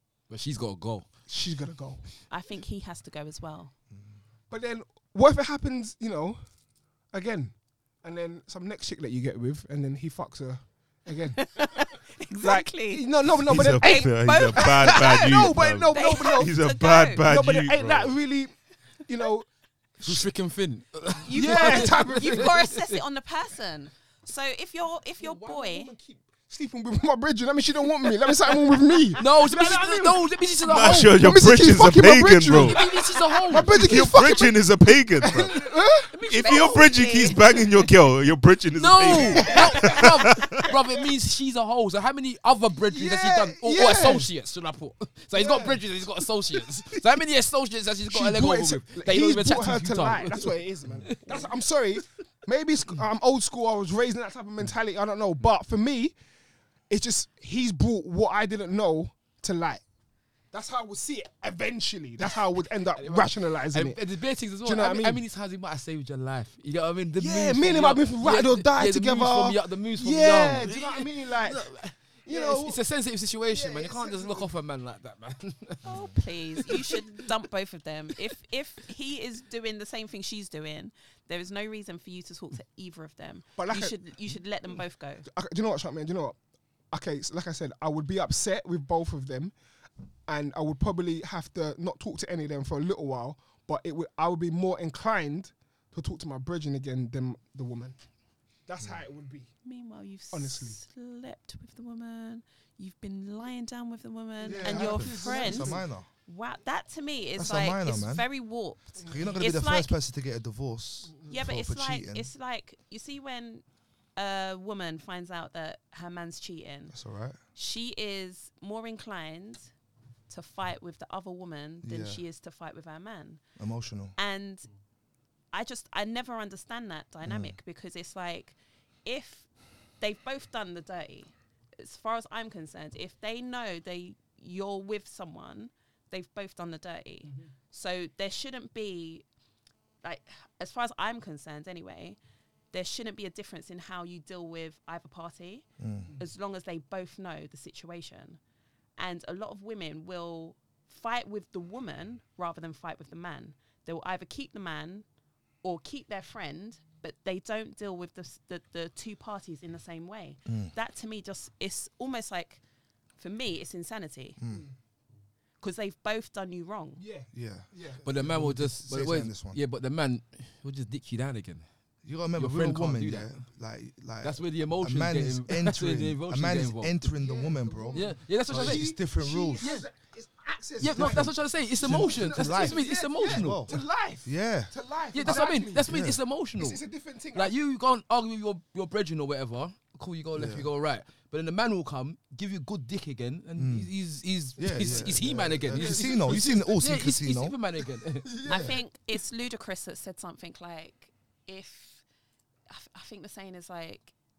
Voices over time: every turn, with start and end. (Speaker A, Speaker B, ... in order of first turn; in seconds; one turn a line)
Speaker A: 0.3-1.3
Speaker B: 1.3-2.1
Speaker C: 2.3-3.7
Speaker D: 3.9-4.2
Speaker B: 4.5-16.5
Speaker C: 11.4-15.0
Speaker E: 13.4-18.2
Speaker C: 15.9-17.2
Speaker B: 17.2-20.3
Speaker A: 20.0-23.0
Speaker C: 21.2-25.9
Speaker B: 21.3-22.5
Speaker B: 25.2-34.7
Speaker A: 29.2-31.2
Speaker E: 30.6-33.0
Speaker A: 32.5-33.9
Speaker E: 33.6-35.6
Speaker B: 35.2-36.5
Speaker E: 36.1-40.7
Speaker C: 36.3-37.9
Speaker A: 38.8-51.5
Speaker B: 42.9-44.3
Speaker B: 45.3-45.8
Speaker B: 48.1-56.2
Speaker D: 50.8-51.1
Speaker B: 56.8-59.9
Speaker B: 60.4-65.2
Speaker A: 62.9-75.8
Speaker B: 67.2-72.9
Speaker B: 73.5-74.5
Speaker D: 75.8-76.2
Speaker C: 75.8-85.2
Speaker B: 83.6-84.2
Speaker B: 85.2-89.5
Speaker B: 90.2-99.6
Speaker D: 98.8-99.0
Speaker C: 99.6-110.0
Speaker B: 100.3-100.8
Speaker B: 104.4-105.7
Speaker D: 104.5-106.1
Speaker A: 104.5-105.8
Speaker D: 107.4-112.3
Speaker B: 109.0-109.3
Speaker B: 111.0-111.3
Speaker C: 111.3-117.0
Speaker D: 116.9-117.4
Speaker C: 117.5-119.7
Speaker C: 120.3-123.4
Speaker D: 121.8-122.2
Speaker D: 123.6-124.2
Speaker C: 124.1-124.8
Speaker C: 125.5-139.2
Speaker D: 127.2-127.6
Speaker C: 140.0-142.2
Speaker C: 142.7-148.4
Speaker D: 145.8-146.1
Speaker C: 149.0-155.1
Speaker C: 155.6-162.6
Speaker D: 160.4-160.7
Speaker C: 163.2-164.4
Speaker D: 164.4-164.7
Speaker C: 165.6-167.0
Speaker B: 167.0-168.0
Speaker D: 167.3-169.6
Speaker A: 168.0-171.7
Speaker D: 172.0-179.8
Speaker A: 172.3-173.4
Speaker A: 174.2-177.0
Speaker B: 177.2-186.0
Speaker A: 177.9-179.9
Speaker A: 180.8-183.8
Speaker D: 180.8-186.2
Speaker A: 185.1-198.8
Speaker B: 186.5-187.5
Speaker D: 190.3-190.7
Speaker D: 193.5-197.6
Speaker B: 194.6-196.6
Speaker B: 198.3-198.8
Speaker C: 198.4-202.0
Speaker C: 202.7-204.1